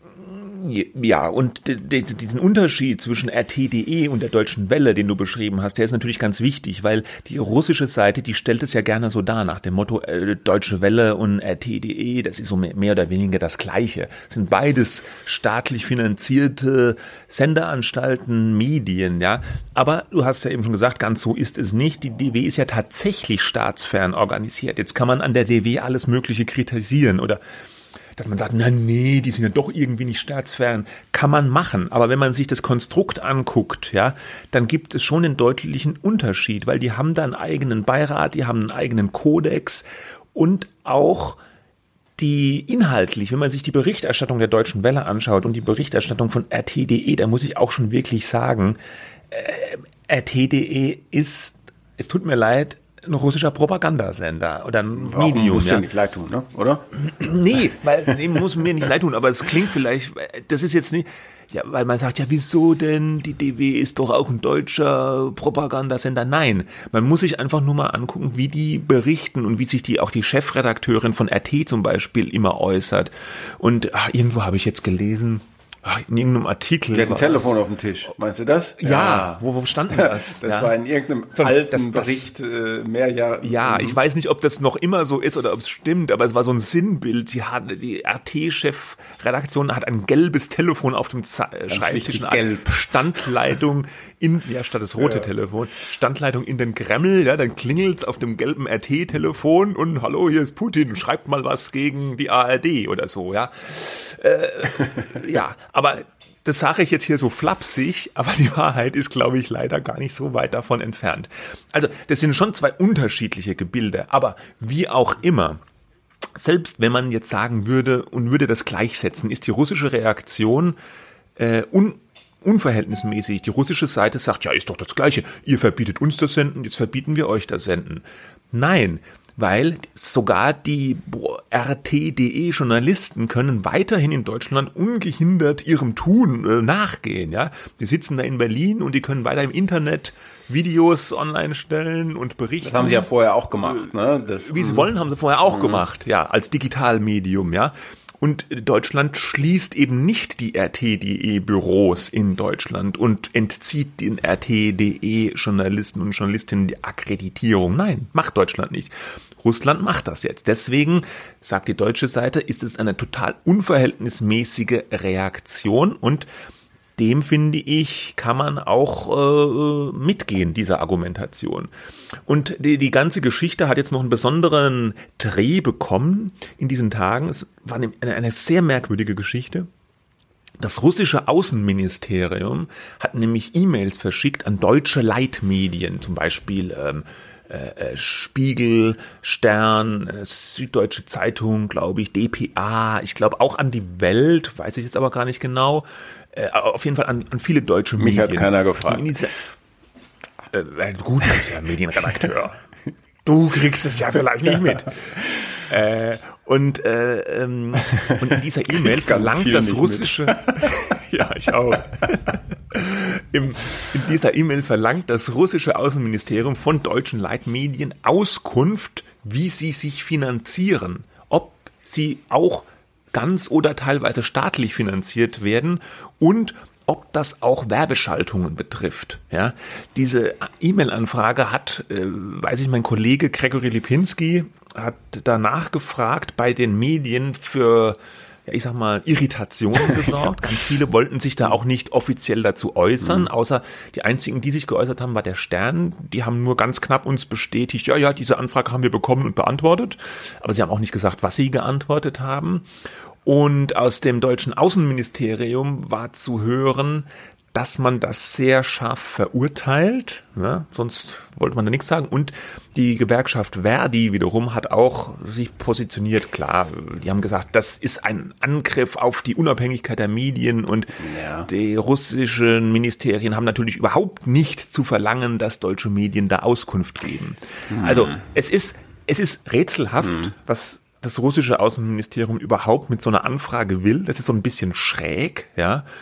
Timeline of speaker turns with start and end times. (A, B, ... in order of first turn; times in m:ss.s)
0:00.1-0:27.4 A
0:28.2-0:41.4 A
0:42.2-0:48.8 A
0:49.3-0:55.9 A
0:55.0-0:56.9 B
0:57.0-1:17.5 A
1:16.9-1:24.0 B
1:18.8-1:20.8 A
1:21.4-1:22.3 A
1:23.4-1:55.6 A
1:31.7-1:33.0 B
1:56.4-2:00.8 A
2:01.4-2:23.1 A
2:22.6-2:24.9 B
2:23.6-2:46.3 A
2:25.5-2:25.8 B
2:47.0-2:51.7 A
2:52.3-2:59.7 A
3:00.6-3:19.3 A
3:18.0-3:19.4 B
3:20.5-3:22.6 A
3:23.2-4:12.7 A
3:28.8-3:31.0 B
4:13.2-4:45.9 A
4:31.0-4:31.5 B
4:37.7-4:38.2 B
4:40.0-4:40.3 B